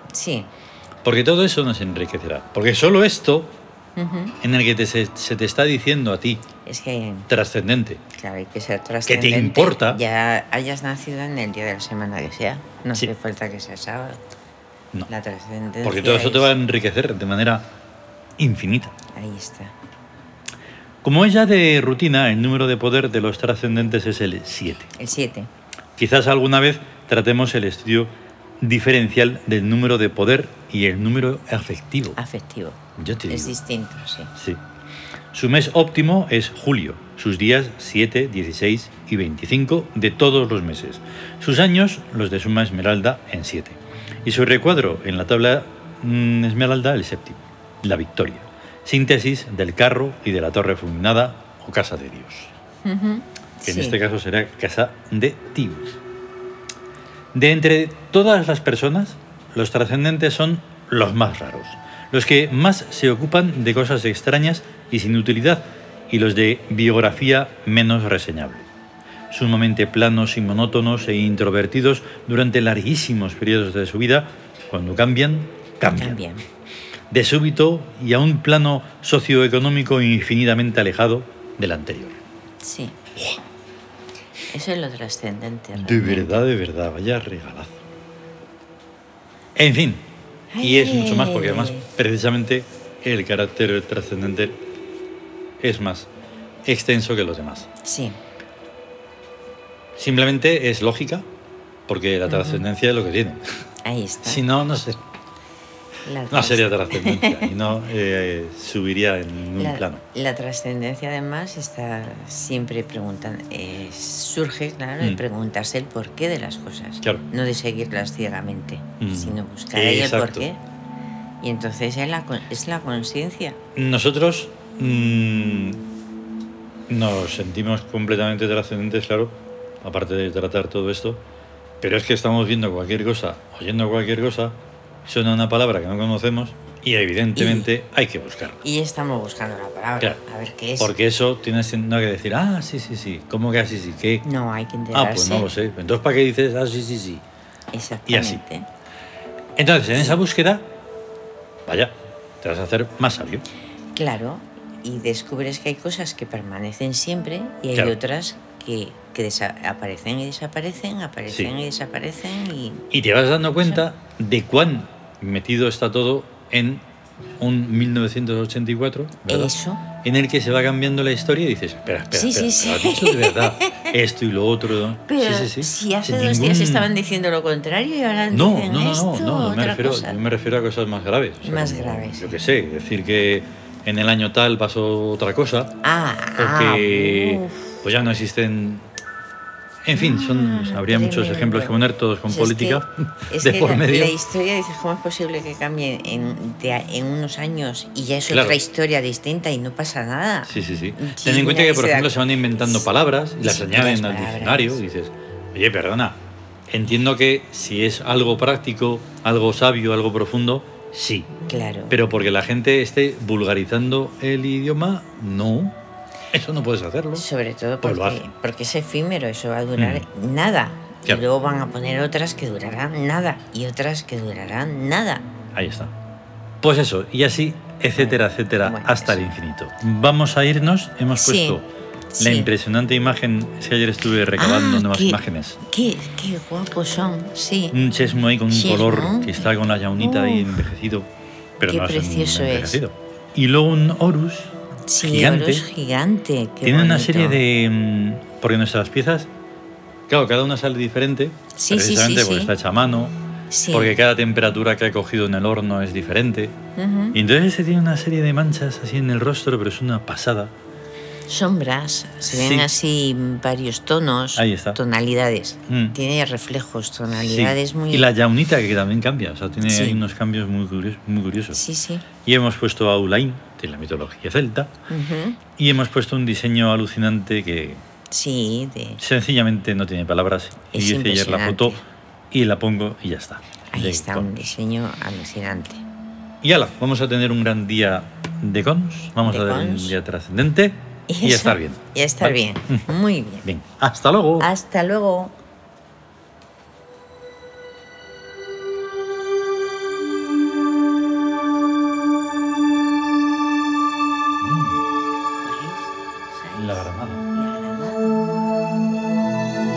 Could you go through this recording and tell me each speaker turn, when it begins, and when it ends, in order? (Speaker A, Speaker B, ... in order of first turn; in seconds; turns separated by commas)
Speaker A: 0.1-0.5, Speaker B: 1.0-3.5, Speaker A: 4.0-4.4, Speaker B: 4.4-6.4, Speaker A: 6.7-7.3, Speaker B: 7.3-8.0, Speaker A: 8.1-14.2, Speaker B: 9.1-10.0, Speaker A: 15.1-16.5, Speaker B: 15.8-17.7, Speaker B: 18.4-18.9, Speaker A: 19.1-19.7, Speaker B: 21.0-24.9, Speaker A: 25.0-25.5, Speaker B: 26.0-32.2, Speaker A: 32.2-34.3, Speaker B: 33.0-33.6, Speaker B: 34.4-34.6, Speaker B: 35.3-52.5, Speaker A: 52.8-54.0, Speaker B: 53.6-56.0, Speaker B: 57.3-68.7, Speaker B: 69.3-76.2, Speaker A: 76.0-76.4, Speaker B: 77.1-82.2, Speaker A: 82.6-83.0, Speaker A: 84.5-86.4, Speaker B: 85.8-87.8, Speaker B: 89.5-90.1, Speaker A: 90.5-91.9, Speaker B: 90.6-94.6, Speaker B: 95.6-96.1, Speaker B: 96.7-97.7, Speaker A: 97.8-98.2, Speaker B: 100.0-101.3, Speaker B: 101.9-103.4, Speaker A: 102.3-102.6, Speaker A: 103.8-104.4, Speaker B: 104.2-105.0, Speaker A: 106.0-107.5, Speaker B: 106.3-110.0, Speaker A: 109.6-120.6, Speaker B: 119.0-120.5, Speaker A: 121.4-123.6, Speaker B: 123.8-125.8, Speaker B: 126.9-131.2, Speaker B: 131.8-138.6, Speaker A: 137.3-137.7, Speaker A: 138.6-140.9, Speaker B: 140.8-144.3, Speaker A: 144.2-145.5, Speaker B: 144.9-147.2, Speaker A: 147.7-148.7, Speaker B: 148.1-148.4, Speaker B: 149.6-150.7, Speaker B: 151.7-153.4, Speaker A: 153.9-162.9, Speaker B: 162.9-166.8, Speaker B: 167.4-176.9, Speaker A: 169.3-169.8, Speaker A: 172.1-173.9, Speaker A: 175.1-180.2, Speaker B: 178.3-185.7, Speaker A: 181.4-182.4, Speaker A: 185.8-187.8, Speaker B: 186.4-188.9, Speaker B: 189.8-194.2, Speaker A: 189.9-202.8, Speaker B: 198.3-198.6, Speaker B: 200.5-206.2, Speaker A: 203.4-204.8, Speaker B: 206.7-211.3, Speaker A: 211.5-211.9, Speaker B: 211.9-215.8, Speaker B: 216.3-217.2, Speaker A: 217.2-225.2, Speaker B: 217.8-218.2, Speaker B: 219.8-220.0, Speaker B: 225.5-225.9, Speaker B: 226.6-231.7, Speaker A: 228.0-229.2, Speaker A: 231.2-231.6, Speaker A: 232.1-232.5, Speaker B: 232.2-235.6, Speaker A: 234.4-237.8, Speaker B: 237.7-241.1, Speaker A: 238.5-240.6, Speaker B: 241.6-245.7, Speaker A: 241.7-242.8, Speaker A: 244.9-247.4, Speaker B: 246.6-249.3, Speaker B: 250.1-253.1, Speaker A: 251.6-252.5, Speaker A: 253.5-254.0, Speaker B: 253.7-256.6, Speaker A: 256.8-257.2, Speaker B: 257.1-260.5, Speaker A: 261.3-268.1, Speaker B: 262.3-262.7, Speaker B: 264.4-264.8, Speaker B: 265.7-266.0, Speaker B: 267.1-271.6, Speaker A: 269.6-270.0, Speaker A: 271.5-272.1, Speaker B: 272.2-274.7, Speaker A: 274.9-275.4, Speaker B: 275.6-277.8, Speaker A: 278.1-279.0, Speaker B: 279.0-281.8, Speaker A: 280.7-281.8, Speaker B: 282.3-284.5, Speaker A: 283.7-285.8, Speaker B: 286.4-294.5, Speaker A: 289.2-290.0, Speaker A: 291.1-293.5, Speaker A: 294.4-295.4, Speaker B: 304.4-304.8, Speaker A: 305.4-308.1, Speaker B: 306.6-307.2